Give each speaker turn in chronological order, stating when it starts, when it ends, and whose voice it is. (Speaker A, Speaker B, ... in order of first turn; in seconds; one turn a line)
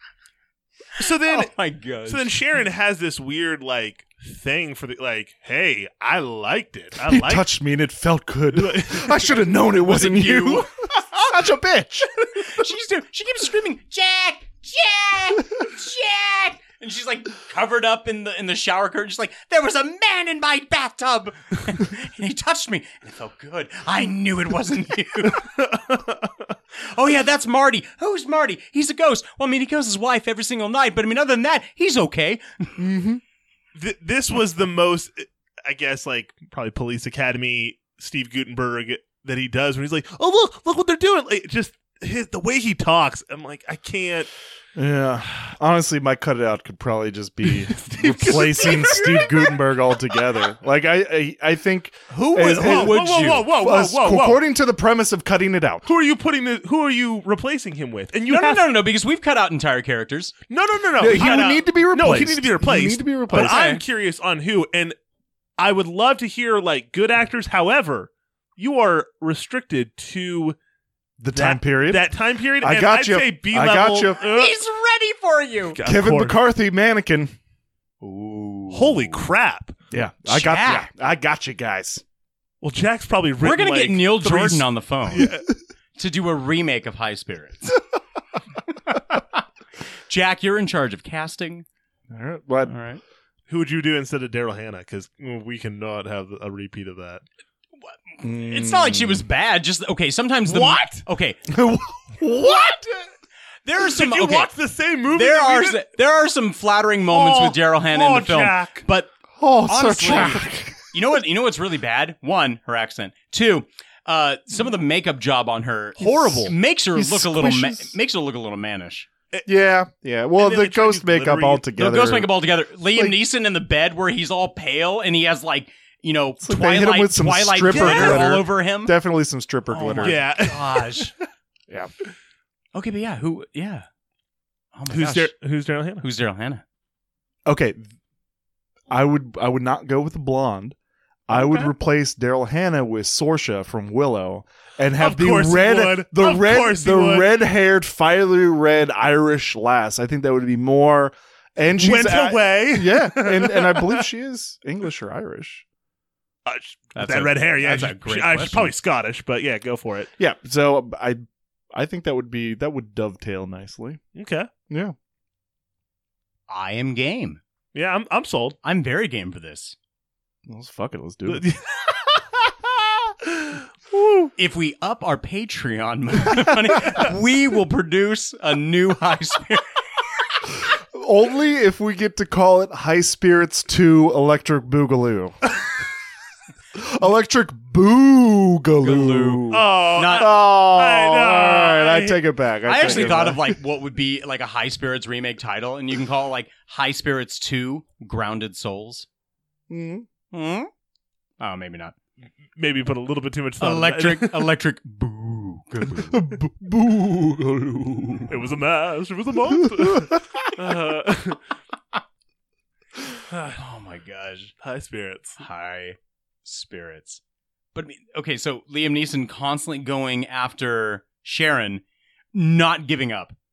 Speaker A: 1.0-1.5
Speaker B: 1.2-2.4
Speaker A: 2.1-7.5
Speaker C: 7.1-10.7
Speaker A: 8.5-9.4
Speaker B: 9.8-11.5
Speaker C: 11.3-12.1
Speaker B: 12.2-25.4
Speaker A: 25.4-26.5
Speaker B: 26.8-32.7
Speaker C: 32.8-33.2
Speaker A: 33.7-44.3
Speaker C: 44.8-55.9
Speaker A: 47.5-49.6
Speaker B: 52.2-53.5
Speaker A: 52.3-54.4
Speaker A: 55.9-58.8
Speaker B: 58.3-60.4
Speaker A: 60.5-65.0
Speaker C: 61.0-63.8
Speaker B: 61.0-61.7
Speaker B: 63.3-63.8
Speaker A: 65.6-70.6
Speaker C: 71.2-74.2
Speaker A: 71.3-74.6
Speaker B: 74.2-75.8
Speaker A: 75.8-76.4
Speaker C: 75.8-77.3
Speaker B: 78.0-79.3
Speaker A: 78.7-79.8
Speaker C: 79.9-82.0
Speaker B: 80.2-80.9
Speaker A: 82.6-85.5
Speaker B: 83.4-85.3
Speaker B: 86.0-87.8
Speaker B: 90.1-91.7
Speaker C: 92.1-92.8
Speaker B: 92.7-93.0
Speaker A: 93.5-97.2
Speaker B: 97.8-101.4
Speaker C: 98.2-99.3
Speaker A: 100.5-101.0
Speaker C: 101.5-102.9
Speaker B: 103.7-104.5
Speaker A: 103.9-105.8
Speaker B: 105.1-109.1
Speaker A: 107.1-108.8
Speaker C: 109.4-110.8
Speaker B: 109.7-119.1
Speaker C: 116.0-117.9
Speaker C: 119.5-123.2
Speaker A: 120.4-121.7
Speaker B: 121.8-128.9
Speaker C: 126.4-130.4
Speaker A: 127.7-128.4
Speaker B: 129.7-131.1
Speaker A: 130.0-131.1
Speaker B: 132.7-133.9
Speaker B: 134.8-135.3
Speaker A: 134.9-136.1
Speaker B: 136.0-136.6
Speaker C: 137.5-137.9
Speaker C: 138.9-140.8
Speaker C: 141.3-155.7
Speaker A: 145.0-147.3
Speaker A: 151.8-154.1
Speaker A: 156.4-160.1
Speaker B: 157.0-158.7
Speaker C: 160.2-164.0
Speaker A: 164.2-164.5
Speaker C: 164.7-164.9
Speaker B: 166.5-167.4
Speaker A: 167.7-168.6
Speaker B: 168.6-169.8
Speaker C: 170.5-171.5
Speaker A: 171.3-171.6
Speaker A: 173.3-173.6
Speaker B: 174.4-179.7
Speaker C: 180.9-185.4
Speaker C: 186.8-193.6
Speaker B: 188.8-190.3
Speaker A: 189.5-193.4
Speaker B: 192.7-199.1
Speaker C: 199.7-200.1
Speaker B: 200.3-200.7
Speaker B: 201.4-201.9
Speaker A: 202.6-204.5
Speaker B: 203.6-206.3
Speaker C: 206.1-208.4
Speaker A: 208.3-211.4
Speaker C: 209.8-210.5
Speaker A: 213.3-213.6
Speaker B: 213.6-214.5
Speaker A: 214.6-215.4
Speaker B: 215.4-217.2
Speaker B: 217.8-221.8
Speaker B: 222.3-223.3